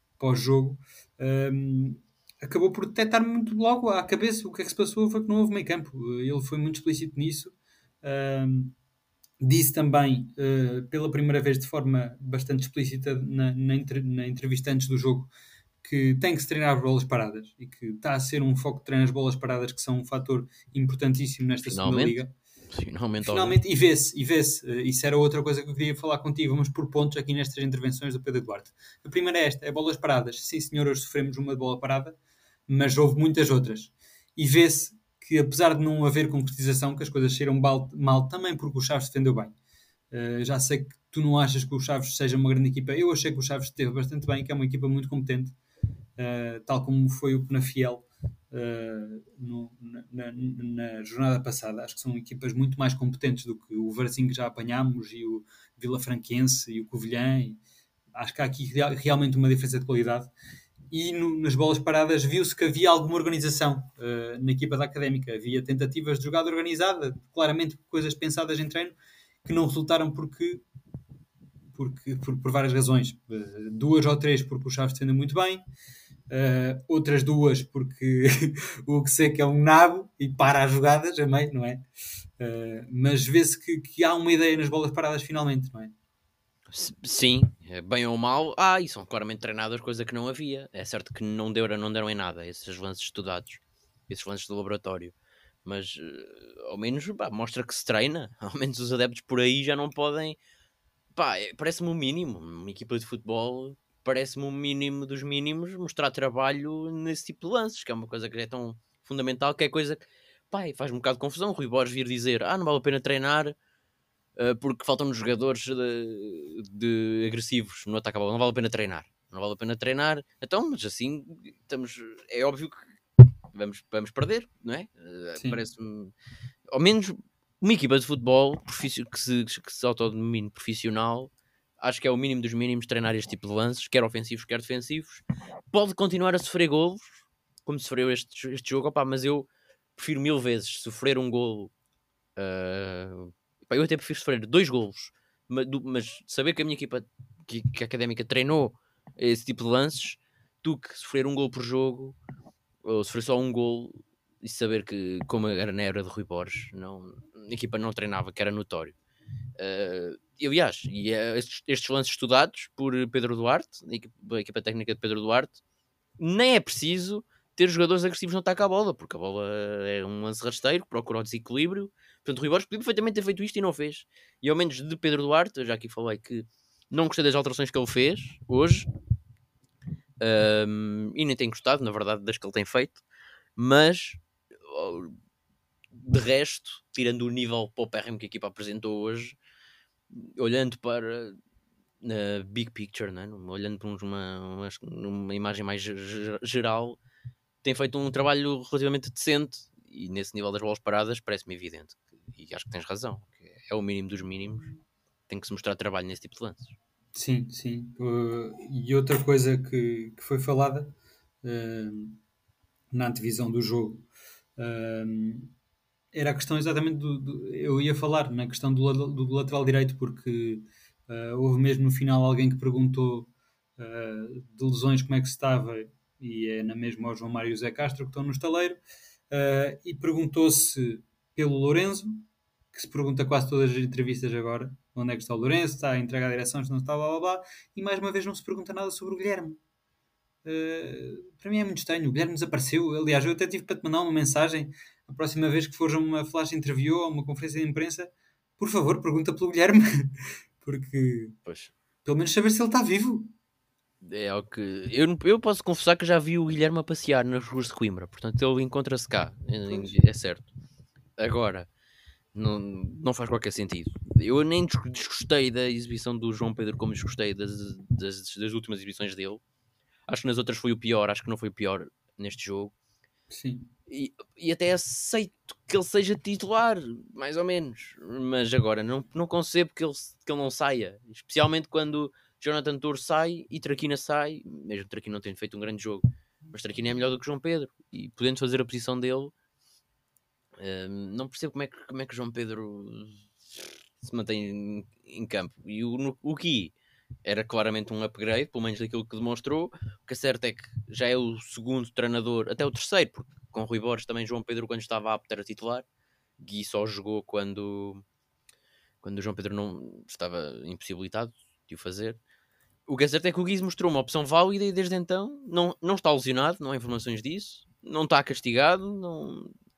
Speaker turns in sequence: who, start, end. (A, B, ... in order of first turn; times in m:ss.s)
0:00.2-0:08.7 A
0:09.4-0:15.3 A
0:15.8-0:22.3 A
0:21.6-0:22.2 B
0:22.7-0:23.6 B
0:23.2-0:32.2 A
0:32.7-0:39.5 A
0:40.1-0:45.5 A
0:46.2-0:57.6 A
0:58.1-1:00.3 A
1:00.9-1:10.6 A
1:11.7-1:15.6 A
1:16.3-1:21.8 A
1:22.4-1:25.9 A
1:26.7-1:35.1 B
1:35.6-1:40.4 B
1:41.1-1:53.5 B
1:54.4-2:02.9 B
2:03.5-2:06.1 B
2:06.7-2:21.7 B
2:22.4-2:32.2 B
2:32.8-2:39.0 B
2:39.6-2:45.6 B
2:46.2-2:58.9 B
3:00.2-3:03.0 B
3:03.6-3:05.1 B
3:05.9-3:09.4 B
3:10.1-3:11.4 B
3:12.0-3:17.0 B
3:17.6-3:24.7 B
3:25.3-3:26.7 B
3:27.1-3:32.2 A
3:32.9-3:34.0 A
3:34.6-3:35.5 A
3:36.1-3:59.6 A
4:00.4-4:11.4 A
4:11.4-4:11.7 B
4:12.0-4:13.3 A
4:14.0-4:20.5 B
4:19.7-4:19.9 A
4:21.2-4:21.7 B
4:22.3-4:29.4 B
4:30.1-4:32.7 B
4:33.3-4:33.7 A
4:33.9-4:49.3 B
4:50.6-4:56.7 B
4:57.2-5:05.8 B
5:06.4-5:08.0 B
5:09.0-5:12.2 B
5:12.9-5:19.5 B